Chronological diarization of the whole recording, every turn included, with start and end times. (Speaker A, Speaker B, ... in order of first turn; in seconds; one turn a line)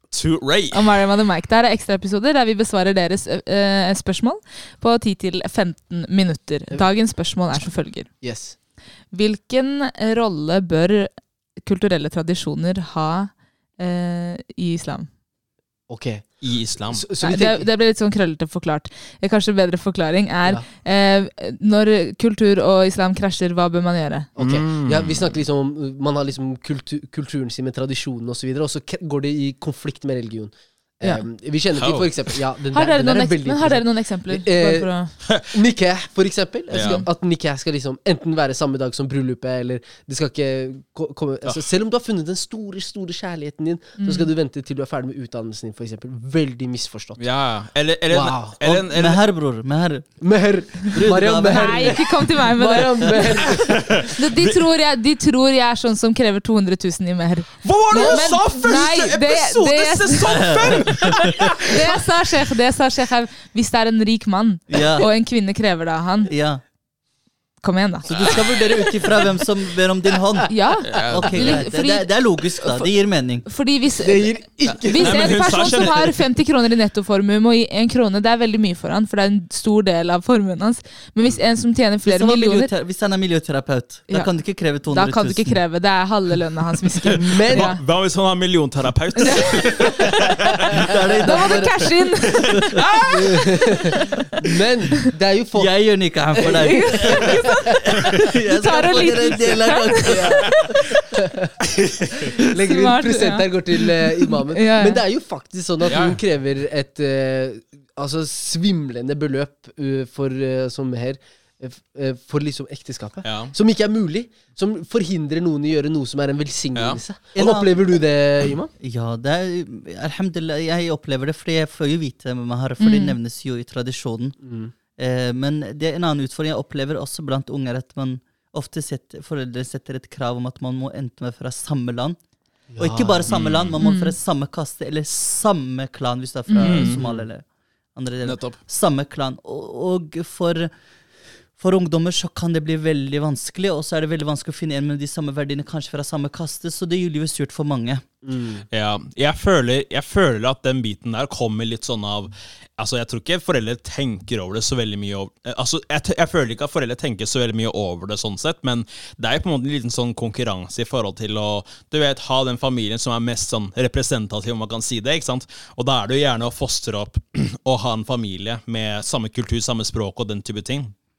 Speaker A: 0.1-0.9
Speaker B: 0.7-8.1
Speaker C: 8.2-8.6
Speaker B: 9.1-15.1
Speaker C: 15.9-17.7
Speaker A: 16.4-17.1
Speaker B: 17.2-24.3
Speaker C: 24.4-47.3
Speaker A: 24.4-25.3
Speaker A: 31.7-32.4
Speaker B: 32.7-35.1
Speaker A: 36.7-37.1
Speaker B: 36.8-37.1
Speaker B: 44.0-44.3
Speaker A: 47.2-49.2
Speaker C: 48.1-48.5
Speaker D: 48.6-50.2
Speaker C: 50.2-54.0
Speaker D: 50.9-52.2
Speaker B: 51.5-60.5
Speaker A: 53.4-54.6
Speaker A: 57.6-61.8
Speaker D: 60.3-61.2
Speaker B: 61.6-66.3
Speaker D: 64.7-65.1
Speaker D: 66.2-66.6
Speaker B: 67.6-68.1
Speaker D: 68.0-73.5
Speaker B: 70.5-82.7
Speaker A: 70.8-71.7
Speaker C: 74.0-75.6
Speaker A: 74.8-76.2
Speaker D: 82.0-85.6
Speaker B: 84.1-87.8
Speaker A: 87.0-90.8
Speaker C: 87.2-87.7
Speaker B: 89.2-90.3
Speaker D: 90.8-91.9
Speaker C: 91.2-91.7
Speaker B: 91.2-92.7
Speaker A: 92.8-93.2
Speaker C: 93.1-97.3
Speaker B: 94.0-94.2
Speaker D: 95.5-100.3
Speaker B: 96.5-100.6
Speaker C: 100.1-101.5
Speaker C: 102.3-118.7
Speaker B: 102.6-103.6
Speaker B: 104.2-105.0
Speaker A: 105.8-106.2
Speaker A: 113.2-113.5
Speaker A: 116.7-117.0
Speaker D: 117.3-117.9
Speaker D: 118.8-124.4
Speaker B: 122.8-123.2
Speaker C: 124.4-124.7
Speaker D: 125.0-132.2
Speaker C: 132.7-133.4
Speaker D: 132.8-140.7
Speaker A: 133.3-133.8
Speaker B: 133.8-134.2
Speaker B: 136.5-136.9
Speaker A: 136.6-137.0
Speaker C: 136.9-137.3
Speaker A: 138.2-138.6
Speaker D: 141.5-148.0
Speaker C: 148.2-148.6
Speaker A: 148.7-170.9